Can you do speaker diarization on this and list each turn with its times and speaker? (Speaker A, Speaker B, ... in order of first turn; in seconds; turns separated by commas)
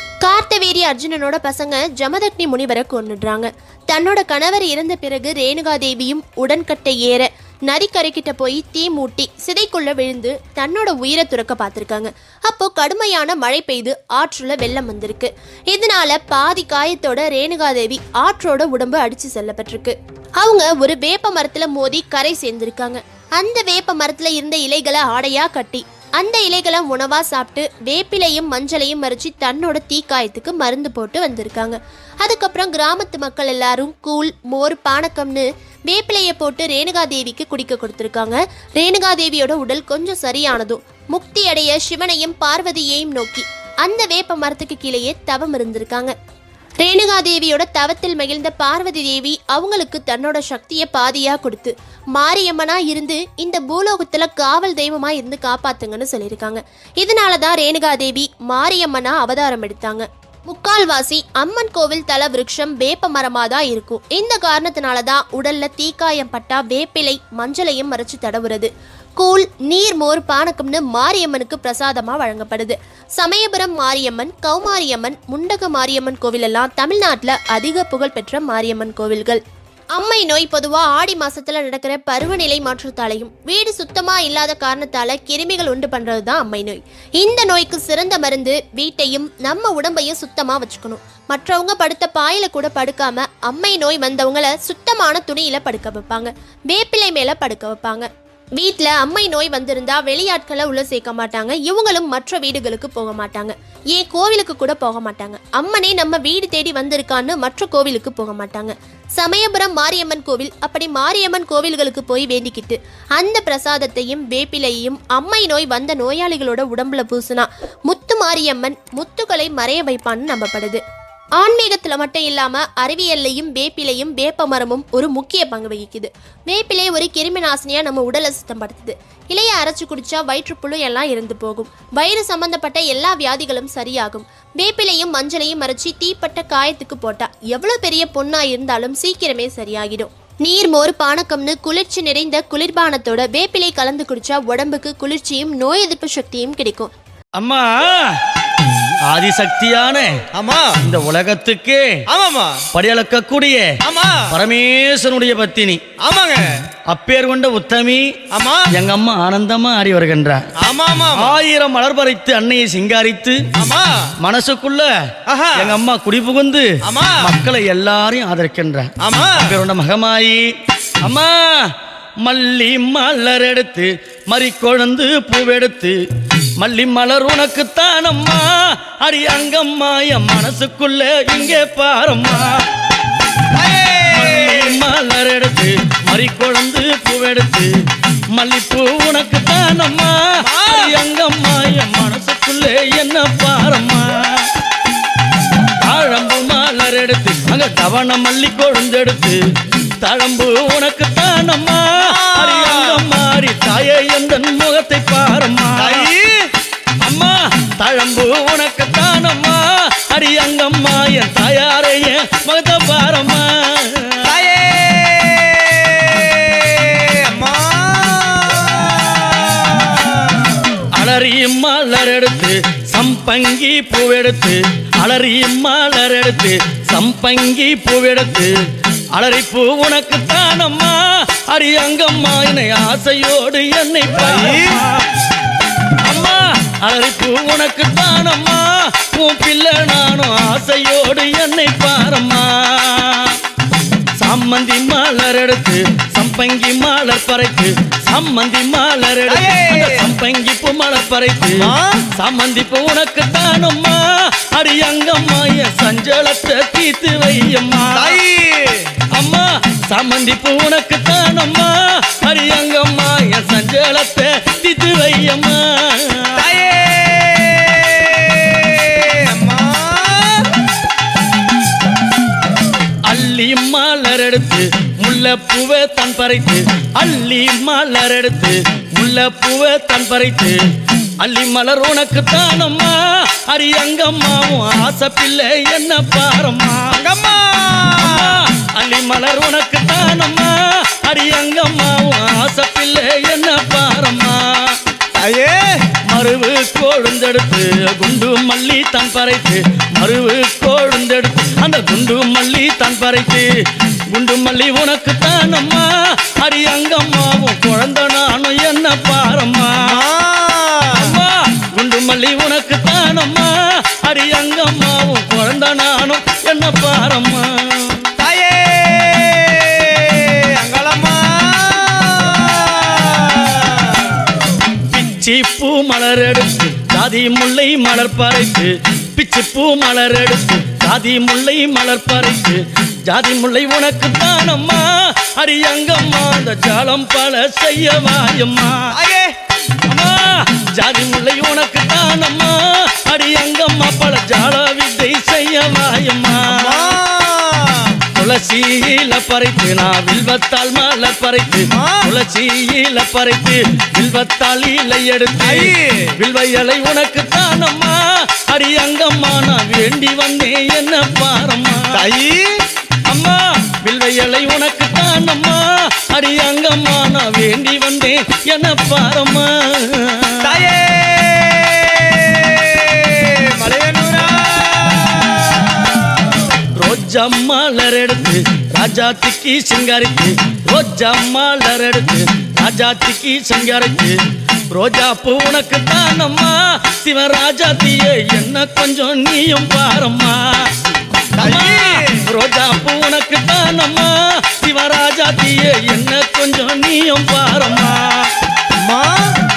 Speaker A: 0.2-46.1, Speaker A: 46.8-79.4, Speaker A: 79.9-120.8, Speaker A: 121.4-146.9, Speaker B: 147.4-148.2, Speaker B: 149.1-150.1, Speaker C: 150.3-150.8, Speaker B: 150.8-152.0, Speaker C: 152.1-152.6, Speaker B: 152.7-153.7, Speaker C: 153.8-154.3, Speaker B: 154.3-155.8, Speaker C: 156.0-156.5, Speaker B: 156.9-158.1, Speaker C: 158.3-158.7, Speaker B: 158.7-160.5, Speaker C: 160.6-161.3, Speaker B: 161.1-163.4, Speaker C: 163.6-164.1, Speaker B: 164.2-164.9, Speaker C: 165.3-165.7, Speaker B: 165.5-166.7, Speaker C: 166.9-167.3, Speaker B: 167.2-170.4, Speaker C: 169.0-169.5, Speaker B: 171.0-171.7, Speaker B: 172.2-176.0, Speaker B: 176.6-178.5, Speaker B: 179.0-182.5, Speaker C: 183.5-184.8, Speaker B: 184.1-187.7, Speaker B: 188.3-194.5, Speaker C: 190.4-190.9, Speaker B: 195.8-199.4, Speaker B: 200.0-206.1, Speaker C: 202.0-203.0, Speaker C: 205.8-206.5, Speaker B: 207.0-214.3, Speaker C: 214.2-220.6, Speaker B: 220.9-228.5, Speaker B: 229.1-231.0, Speaker B: 231.5-235.0, Speaker C: 234.2-234.8, Speaker B: 236.0-243.4, Speaker B: 244.2-254.0, Speaker C: 249.3-250.1, Speaker C: 251.6-252.0, Speaker B: 254.5-258.2, Speaker C: 257.9-258.9, Speaker B: 259.1-266.4, Speaker C: 266.3-270.5, Speaker B: 273.1-280.6, Speaker B: 281.2-282.9, Speaker B: 283.5-286.9, Speaker C: 286.9-288.4, Speaker B: 288.0-294.8, Speaker C: 295.1-295.9, Speaker B: 296.1-303.4, Speaker B: 304.1-309.9, Speaker C: 309.9-311.2, Speaker B: 311.0-318.1, Speaker C: 318.2-324.2, Speaker B: 324.9-338.8, Speaker C: 338.9-339.3, Speaker B: 339.9-346.9, Speaker C: 346.5-348.0, Speaker B: 348.1-362.0, Speaker C: 351.7-352.1, Speaker C: 355.4-356.1, Speaker C: 361.9-362.6, Speaker B: 363.0-370.5, Speaker C: 370.4-376.4, Speaker B: 376.8-384.1, Speaker B: 384.7-390.7, Speaker B: 391.3-398.3, Speaker C: 391.4-392.2, Speaker C: 398.8-399.3